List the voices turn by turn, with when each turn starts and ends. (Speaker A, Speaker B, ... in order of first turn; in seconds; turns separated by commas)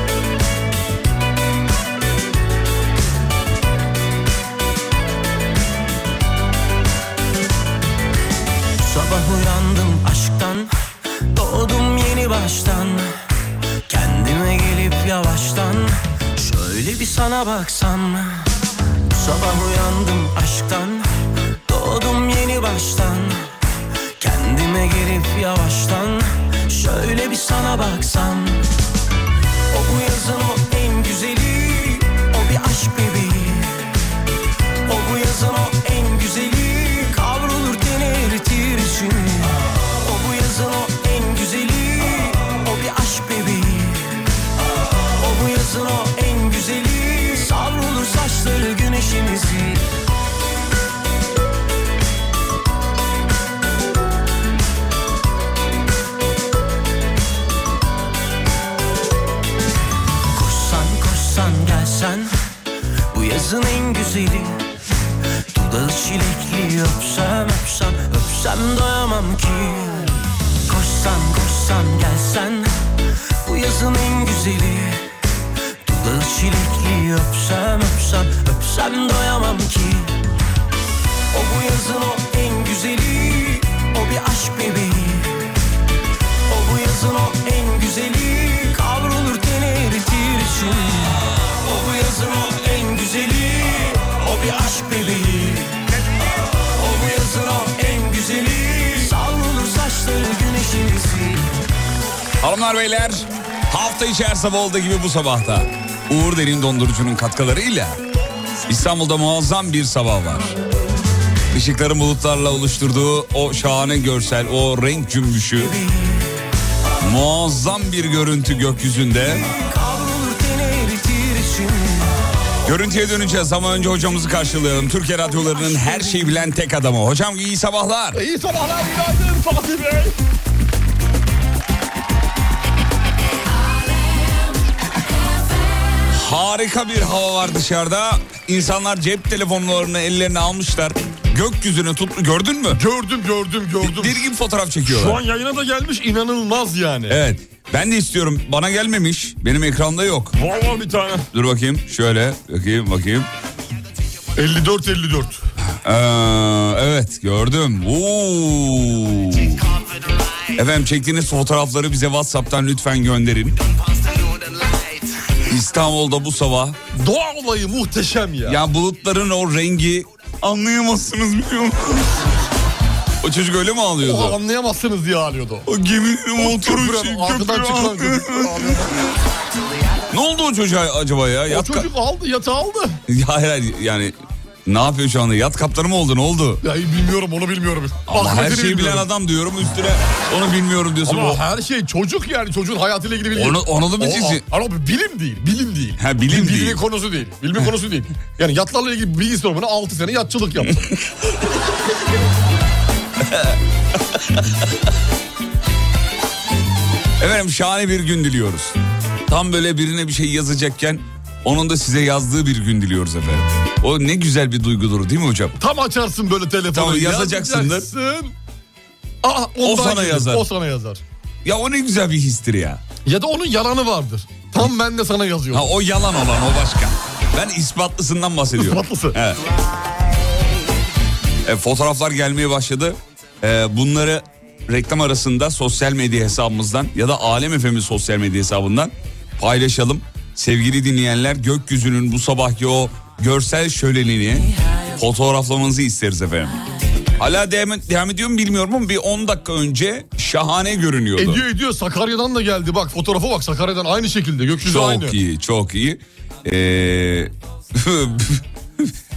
Speaker A: 8.8-10.7, Speaker A: 11.3-13.1, Speaker A: 13.9-18.5, Speaker A: 19.1-21.1, Speaker A: 21.7-23.5, Speaker A: 24.2-28.7, Speaker A: 29.7-33.9, Speaker A: 34.9-44.2, Speaker A: 45.2-49.9, Speaker A: 60.3-62.3, Speaker A: 63.1-64.6, Speaker A: 65.5-72.7, Speaker A: 73.4-75.0, Speaker A: 75.8-80.2, Speaker A: 81.3-85.5, Speaker A: 86.5-101.5, Speaker B: 102.4-108.0, Speaker B: 108.7-110.5, Speaker B: 111.5-115.8, Speaker A: 115.6-116.3, Speaker B: 117.0-119.5, Speaker A: 119.4-122.1, Speaker B: 122.7-128.2, Speaker A: 125.4-126.1, Speaker C: 128.1-130.2, Speaker B: 136.1-142.8, Speaker C: 142.7-144.3, Speaker B: 143.8-145.2, Speaker C: 144.8-147.2, Speaker B: 147.1-150.4, Speaker C: 150.4-151.3, Speaker B: 151.3-153.3, Speaker C: 154.4-155.4, Speaker B: 155.8-159.6, Speaker B: 160.6-163.6, Speaker B: 165.4-166.8, Speaker C: 166.9-168.6, Speaker B: 168.4-172.2, Speaker B: 173.2-174.4, Speaker C: 174.0-175.7, Speaker B: 175.7-179.2, Speaker C: 176.4-179.0, Speaker B: 180.1-181.9, Speaker C: 181.5-183.0, Speaker B: 183.1-184.1, Speaker B: 184.7-186.6, Speaker C: 186.6-189.1, Speaker B: 188.1-191.4, Speaker C: 191.0-200.9, Speaker B: 193.3-194.4, Speaker B: 196.0-196.8, Speaker B: 207.2-208.8, Speaker B: 209.3-215.6, Speaker C: 215.6-218.3, Speaker B: 216.7-217.9, Speaker C: 219.2-221.0, Speaker B: 219.6-220.4, Speaker B: 221.4-222.8, Speaker C: 223.1-225.7, Speaker B: 225.5-229.4, Speaker C: 228.6-229.2, Speaker B: 231.4-246.6, Speaker B: 247.2-251.4, Speaker C: 251.2-255.2, Speaker B: 254.7-258.9